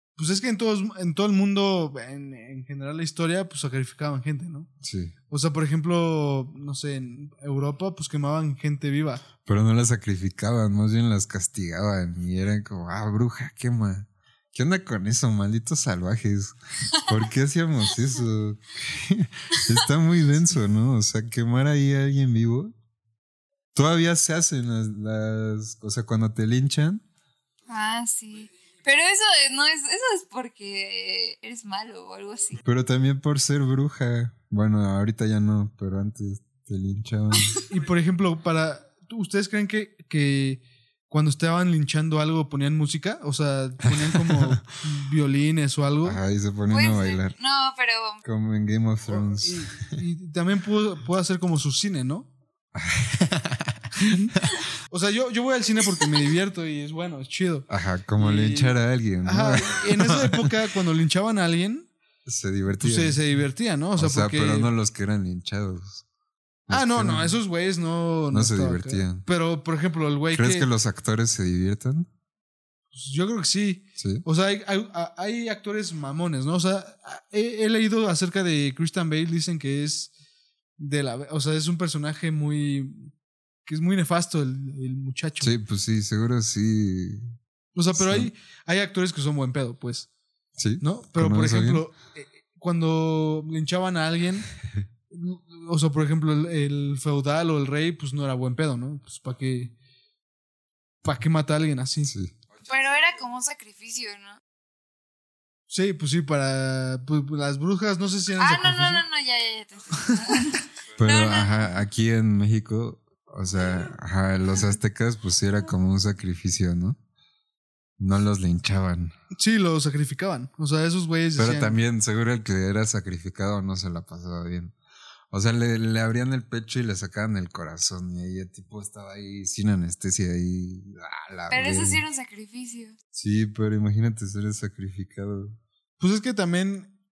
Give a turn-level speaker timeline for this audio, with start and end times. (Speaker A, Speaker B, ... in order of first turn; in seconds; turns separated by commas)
Speaker A: 0.2-4.7, Speaker B: 4.8-5.1, Speaker A: 5.3-9.2, Speaker B: 9.4-22.7, Speaker B: 23.7-27.0, Speaker C: 27.7-32.6, Speaker B: 32.6-37.6, Speaker A: 37.7-46.2, Speaker B: 44.0-44.6, Speaker B: 46.0-47.4, Speaker C: 46.7-48.2, Speaker B: 48.2-50.0, Speaker A: 49.1-52.3, Speaker B: 52.8-54.6, Speaker A: 54.0-54.4, Speaker A: 54.9-61.9, Speaker B: 57.7-60.5, Speaker B: 62.3-63.2, Speaker A: 62.8-64.7, Speaker B: 64.0-66.0, Speaker B: 66.7-67.4, Speaker A: 66.7-70.7, Speaker B: 68.3-69.2, Speaker B: 70.3-72.1, Speaker A: 72.9-80.1, Speaker B: 74.0-74.2, Speaker A: 80.8-83.1, Speaker A: 83.7-85.5, Speaker B: 85.4-87.4, Speaker A: 87.8-90.1, Speaker B: 87.9-88.3, Speaker B: 90.6-91.9, Speaker A: 90.8-94.5, Speaker A: 95.1-99.7, Speaker A: 101.0-102.1, Speaker B: 102.1-102.3, Speaker C: 102.6-104.4, Speaker A: 105.7-109.0, Speaker C: 108.4-111.7, Speaker B: 111.0-117.0, Speaker B: 118.0-119.1, Speaker A: 119.3-121.8, Speaker B: 121.4-124.8, Speaker B: 125.3-132.0, Speaker C: 131.5-133.0, Speaker B: 133.1-135.6, Speaker A: 136.0-136.9